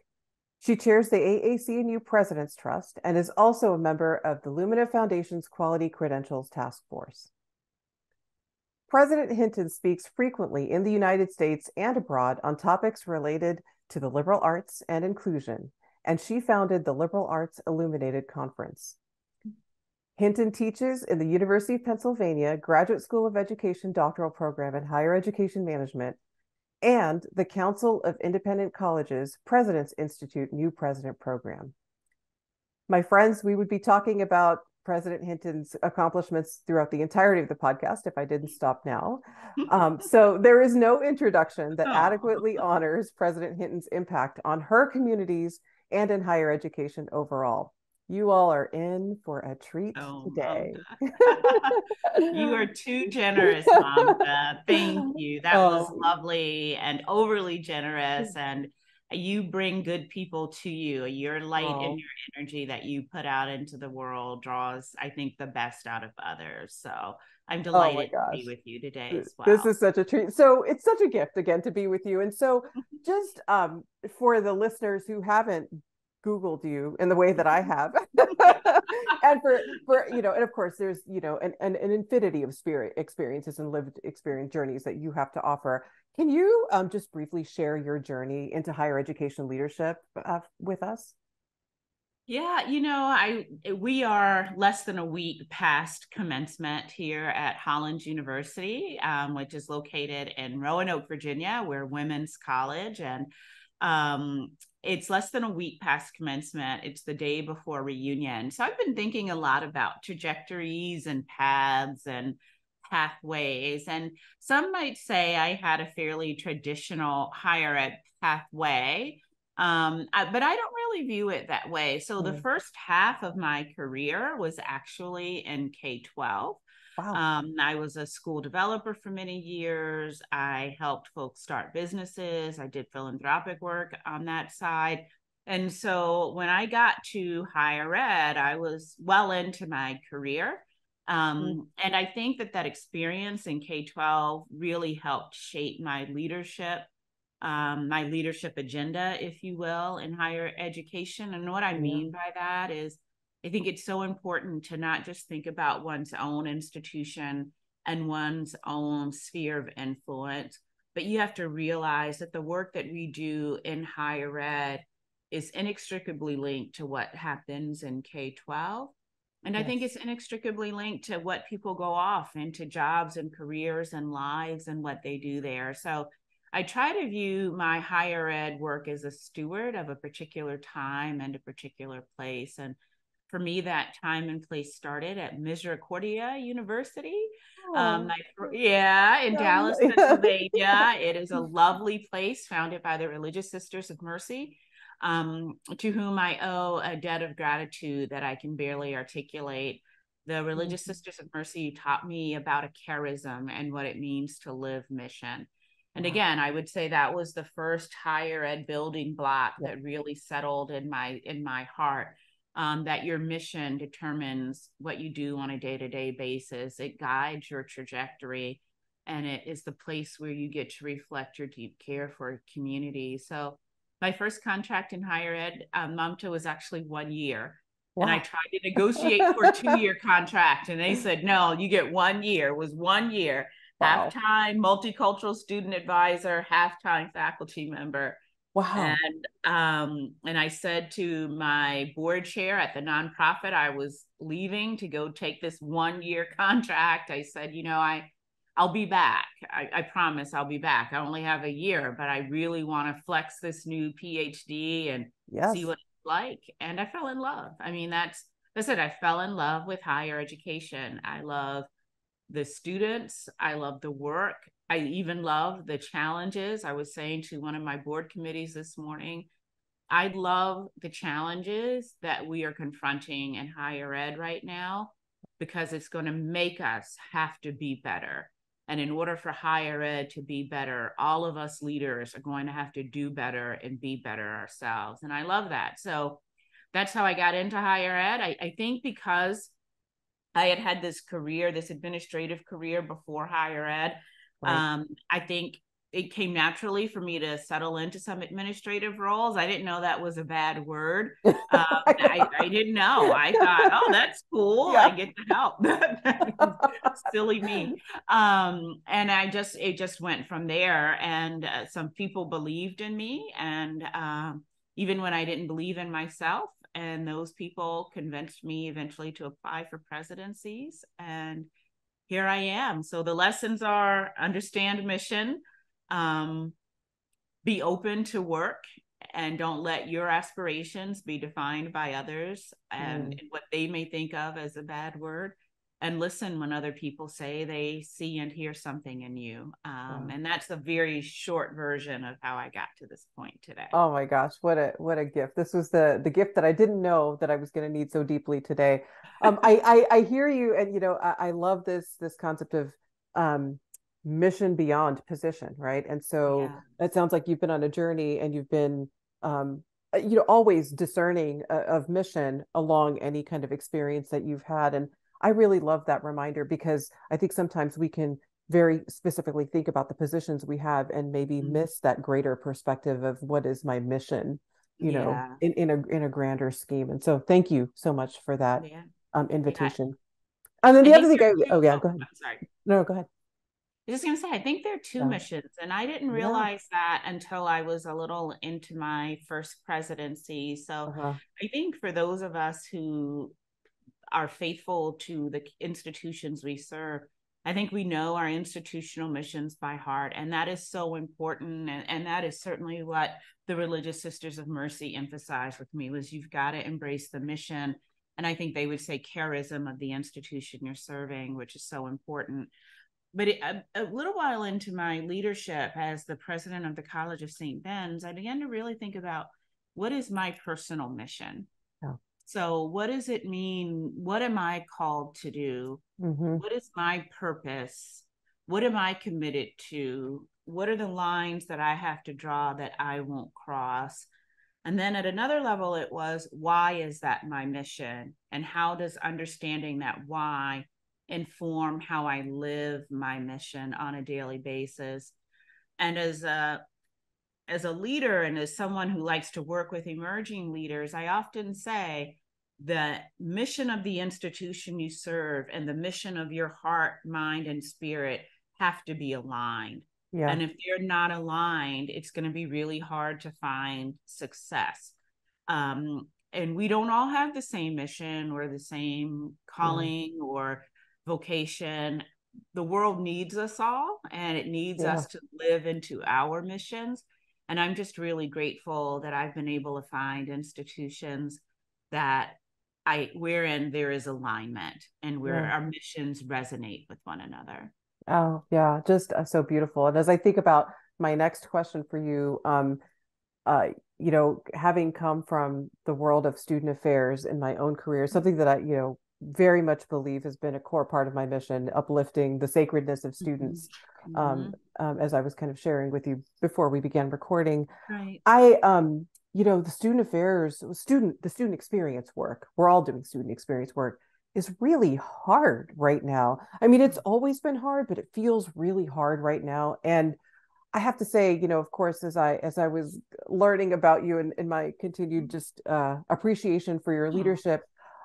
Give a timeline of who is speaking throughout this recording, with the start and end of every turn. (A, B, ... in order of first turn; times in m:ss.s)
0:00.6-0:07.3 A
0:08.9-0:19.0 A
0:20.2-0:26.2 A
0:26.8-0:31.7 A
0:32.9-0:52.6 A
0:41.8-0:42.5 B
0:50.0-1:09.7 B
0:53.4-0:54.2 A
0:54.7-0:56.1 A
1:01.6-1:02.0 A
1:07.7-1:08.5 A
1:09.1-1:31.2 A
1:32.3-1:43.3 B
1:43.8-2:26.9 B
2:27.4-2:48.9 B
2:31.8-2:32.1 A
2:49.4-3:02.8 B
3:03.3-3:58.2 B
3:07.7-3:08.1 A
3:09.3-3:10.8 A
3:20.6-3:20.9 A
3:48.0-3:48.2 A
3:48.8-3:49.8 A
3:53.8-3:54.1 A
3:58.6-3:59.0 A
3:58.8-4:21.7 B
4:15.3-4:15.7 A
4:22.3-4:29.3 B
4:29.9-4:49.5 B
4:50.4-5:21.5 B
5:01.5-5:02.3 A
5:03.1-5:03.9 A
5:06.4-5:06.9 A
5:22.1-5:26.6 B
5:27.4-5:28.6 B
5:29.1-5:43.8 B
5:32.8-5:33.2 A
5:43.7-6:20.0 A
5:56.3-5:56.6 B
6:11.4-6:11.6 B
6:14.8-6:15.4 B
6:18.6-6:18.9 B
6:19.5-6:19.8 B
6:20.6-6:23.1 A
6:20.8-6:22.5 B
6:23.9-6:33.3 B
6:26.1-6:26.5 A
6:30.9-6:31.2 A
6:34.1-6:52.5 B
6:53.1-7:01.5 B
7:02.2-7:05.8 B
7:06.0-7:06.4 A
7:06.4-7:14.1 B
7:14.6-7:25.1 B
7:25.8-7:26.6 B
7:27.5-7:45.0 B
7:40.1-7:40.4 A
7:45.5-8:07.7 B
7:49.6-7:49.9 A
7:54.8-7:55.0 A
8:05.3-8:05.5 A
8:08.1-8:12.8 A
8:13.5-8:27.7 A
8:23.2-8:24.6 B
8:27.9-8:28.2 B
8:28.2-8:40.2 A
8:40.7-8:47.7 A